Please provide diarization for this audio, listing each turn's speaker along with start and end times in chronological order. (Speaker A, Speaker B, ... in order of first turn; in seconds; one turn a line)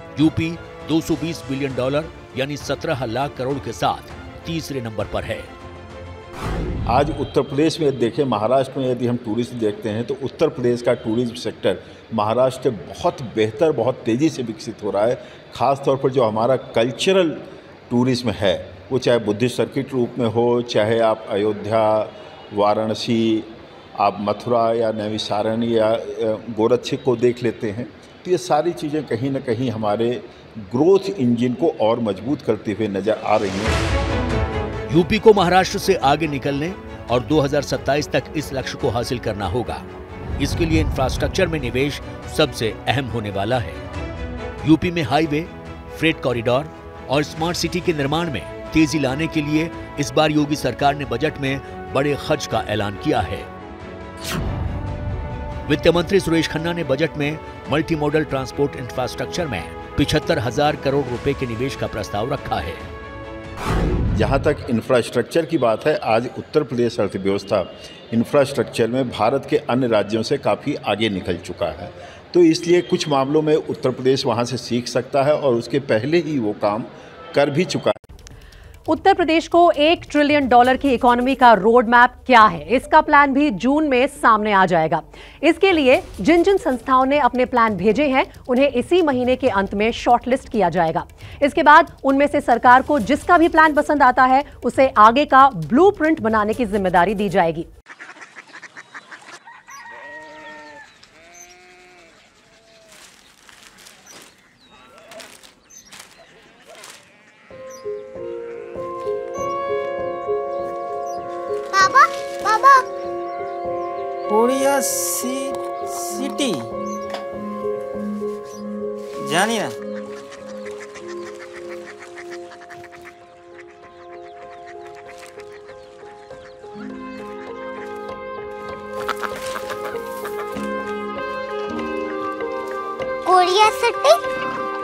Speaker A: 0.2-5.5
Speaker B: 6.9-33.8
Speaker A: 34.9-39.9
Speaker A: 40.4-43.8
Speaker A: 44.6-53.5
Speaker A: 55.7-62.8
Speaker B: 64.2-78.0
Speaker C: 78.9-97.7
Speaker D: 111.7-112.8
Speaker E: 114.3-116.7
Speaker E: 119.2-119.8
Speaker D: 133.2-134.2